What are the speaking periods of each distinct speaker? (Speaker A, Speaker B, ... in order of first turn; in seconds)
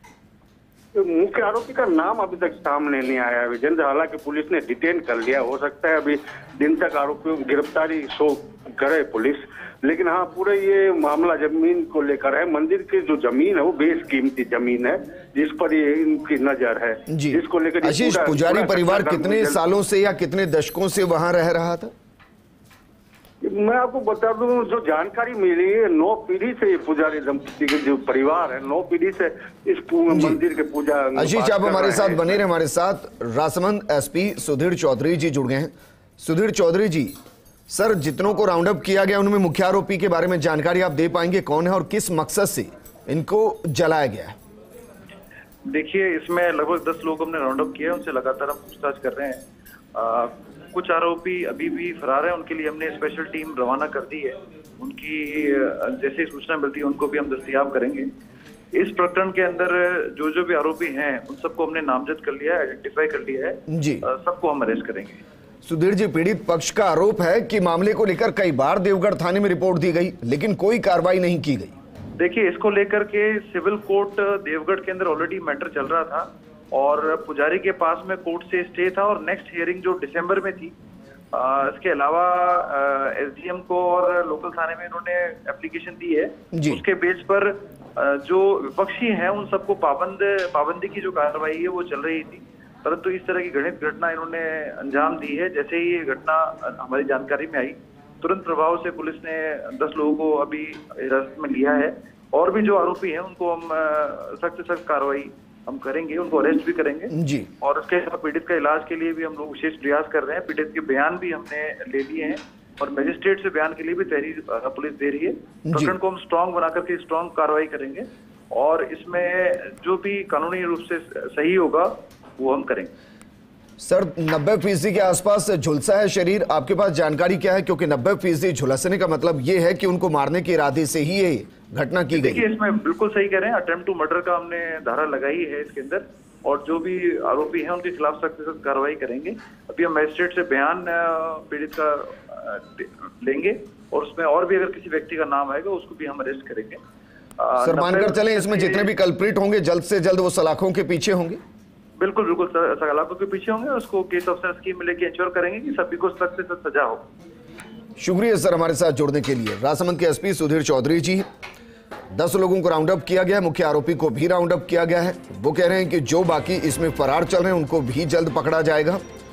Speaker A: 0.9-19.6, 23.4-32.4
Speaker B: 17.1-21.9, 30.1-30.4, 31.2-37.2, 37.7-44.4, 63.7-64.0, 65.7-71.8, 86.5-86.8, 107.1-107.5, 115.7-116.0, 123.8-132.5, 147.6-151.4, 158.0-161.2, 162.1-169.0
Speaker C: 45.6-49.4, 50.0-58.1, 58.7-65.2, 72.2-80.7, 81.3-122.9, 132.1-146.8, 147.4-148.9, 152.0-157.1